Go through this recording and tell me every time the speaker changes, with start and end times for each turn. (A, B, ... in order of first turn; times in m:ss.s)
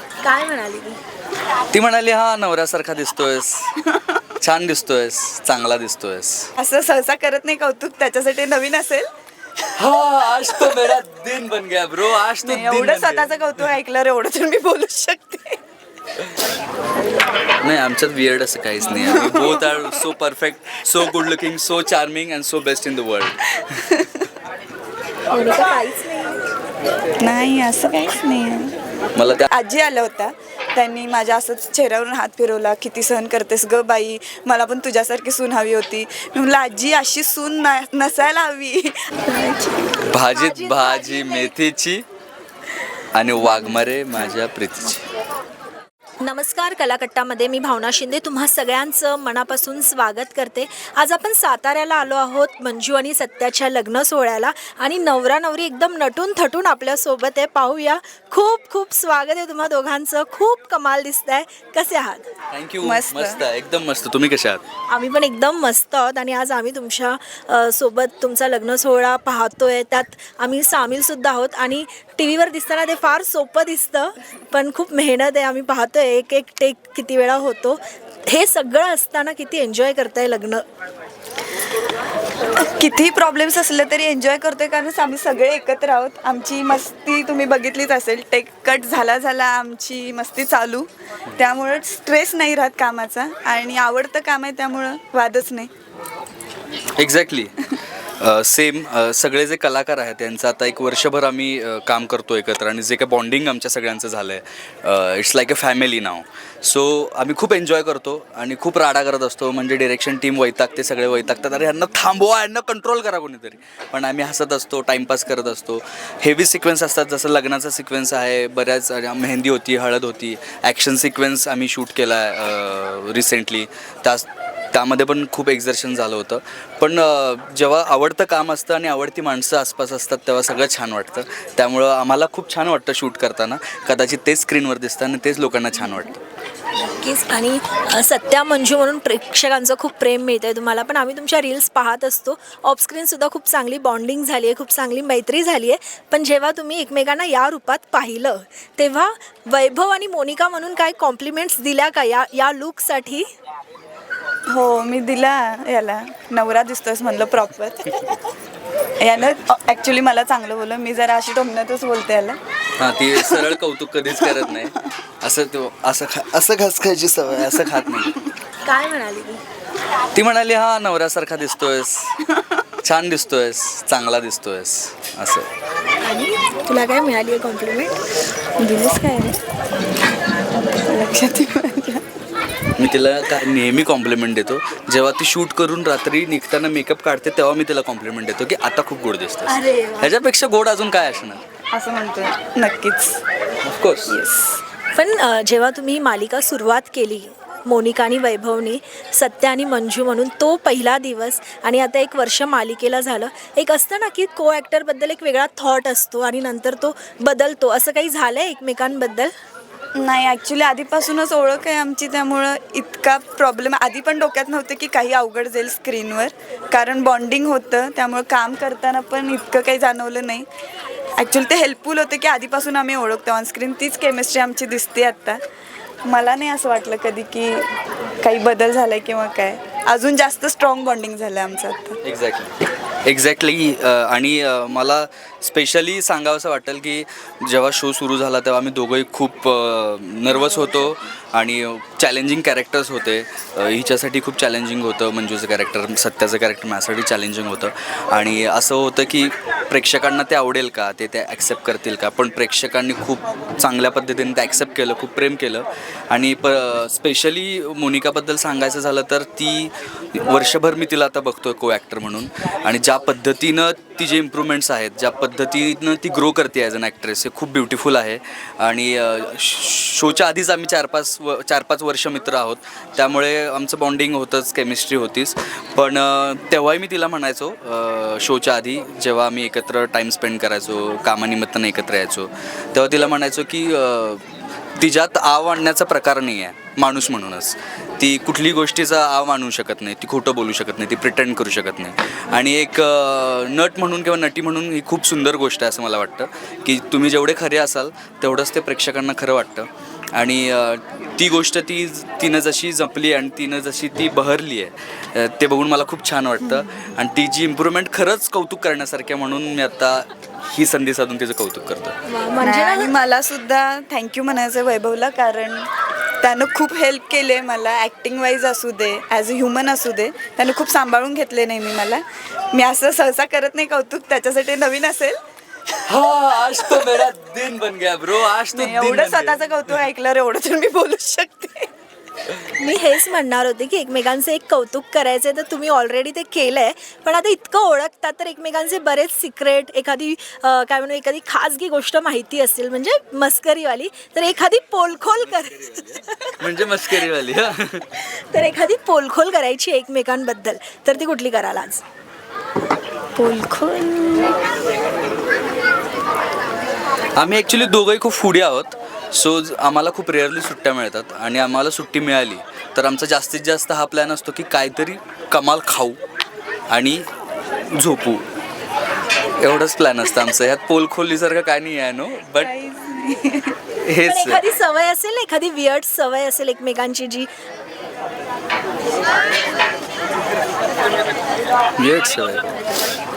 0:00.2-0:01.0 A
0:01.7-0:03.8 B
0:04.4-0:06.5 B
0:06.6-0:09.1 C
0:09.8-0:13.4 B
0:12.4-0:15.6 C
0:17.6-0:23.6 B
0:19.0-0:19.7 C
0:25.3-0:26.4 A
0:27.2-0:28.7 C
0:29.2-0:29.5 B
0:29.5-0:39.7 C
0:40.0-0:42.0 B
0:40.2-0:41.5 A
0:43.1-0:45.0 B
0:43.4-0:44.2 A
0:46.2-1:02.3 A
1:02.5-1:04.6 B
1:02.8-1:03.4 C
1:04.9-1:20.6 A
1:22.6-1:35.7 C
1:37.0-2:16.2 B
2:16.8-2:33.3 A
2:34.5-2:38.2 C
2:39.0-2:42.4 C
2:42.8-2:48.2 B
2:43.1-2:43.6 C
2:44.3-2:44.6 C
2:47.4-2:47.9 C
2:48.7-2:49.4 A
2:50.1-2:52.2 B
2:52.8-2:55.5 B
2:56.0-2:58.0 A
2:58.6-2:59.4 C
3:00.6-3:02.1 C
3:02.8-3:11.4 B
3:09.5-3:10.1 A
3:11.7-3:13.2 C
3:13.6-3:14.1 B
3:14.1-3:14.6 C
3:15.0-3:29.3 A
3:30.0-3:40.5 C
3:41.2-3:45.4 C
3:46.1-3:47.7 C
3:48.2-3:52.0 C
3:52.0-3:52.5 B
3:53.1-5:12.0 B
5:12.1-5:12.9 A
5:12.4-5:15.7 C
5:16.2-5:25.2 C
5:25.9-5:29.7 B
5:28.5-5:31.7 C
5:32.5-5:46.4 A
5:46.4-5:47.9 B
5:48.0-5:51.8 A
5:53.2-5:54.4 C
5:57.2-6:06.0 B
6:06.7-6:07.0 B
6:07.7-6:08.2 B
6:09.4-6:12.5 B
6:12.4-6:13.6 C
6:13.8-6:14.4 B
6:14.0-6:17.3 A
6:21.8-6:22.5 B